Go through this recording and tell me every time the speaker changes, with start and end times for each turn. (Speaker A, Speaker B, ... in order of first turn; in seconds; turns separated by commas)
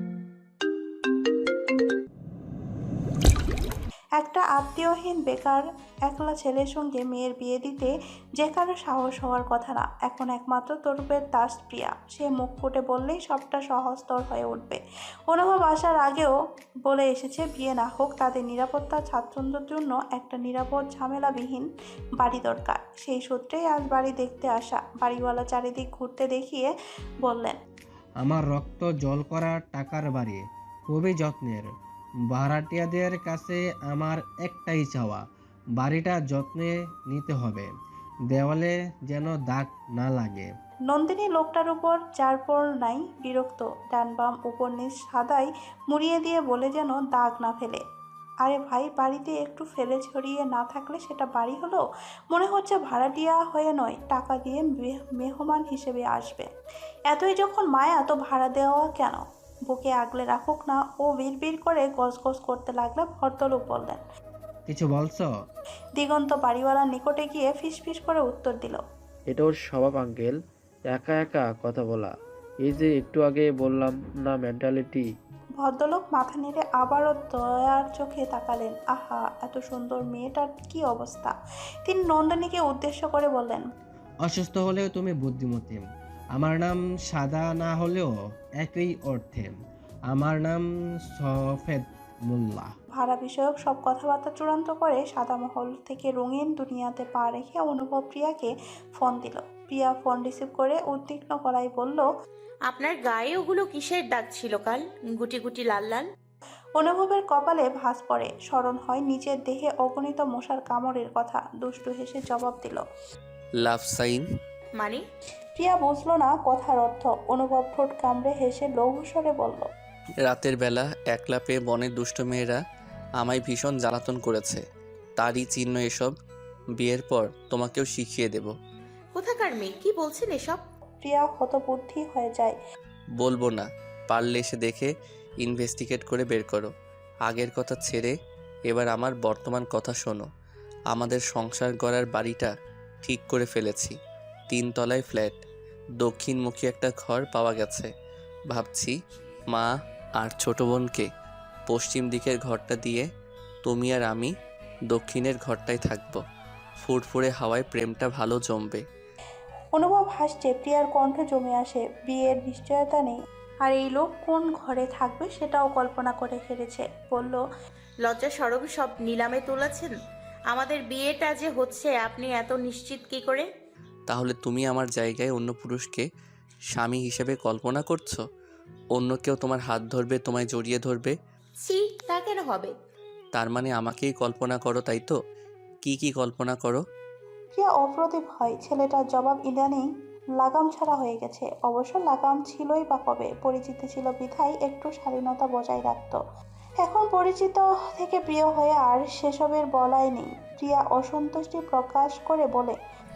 Speaker A: 4.2-16.3, Speaker A: 16.9-26.7, Speaker A: 27.2-27.6, Speaker B: 28.2-31.7, Speaker B: 32.3-35.2, Speaker B: 35.8-37.7, Speaker B: 38.3-40.5, Speaker A: 40.9-47.8, Speaker A: 48.4-56.5, Speaker A: 57.1-64.0, Speaker B: 64.7-65.3, Speaker A: 66.0-68.8, Speaker C: 69.3-70.4, Speaker C: 70.9-72.1, Speaker C: 72.6-75.0, Speaker A: 75.6-81.3, Speaker A: 81.8-83.7, Speaker B: 84.2-85.8, Speaker B: 86.3-89.5, Speaker B: 90.1-92.7, Speaker A: 93.0-102.0, Speaker D: 102.7-106.0, Speaker A: 106.8-112.8, Speaker E: 113.6-114.3, Speaker D: 114.8-115.0, Speaker A: 115.5-119.7, Speaker E: 120.2-122.6, Speaker E: 123.2-124.6, Speaker E: 125.2-126.1, Speaker E: 126.8-128.5, Speaker D: 129.1-130.6, Speaker A: 131.0-132.6, Speaker E: 133.2-136.7, Speaker E: 137.2-138.1, Speaker E: 138.7-140.2, Speaker E: 140.9-142.5, Speaker E: 143.0-143.9, Speaker E: 144.5-145.4, Speaker E: 146.0-147.9, Speaker E: 148.5-148.9, Speaker E: 149.5-151.1, Speaker E: 151.7-153.1, Speaker E: 153.6-154.3, Speaker E: 154.9-156.2, Speaker E: 156.8-158.8, Speaker A: 159.8-167.4, Speaker D: 168.0-169.9, Speaker D: 170.5-173.4, Speaker E: 174.1-176.1, Speaker E: 176.7-178.2, Speaker E: 178.9-181.1, Speaker D: 181.6-182.7, Speaker E: 183.3-185.2, Speaker E: 185.8-186.8, Speaker A: 187.5-189.9, Speaker A: 190.4-196.2, Speaker A: 196.8-202.8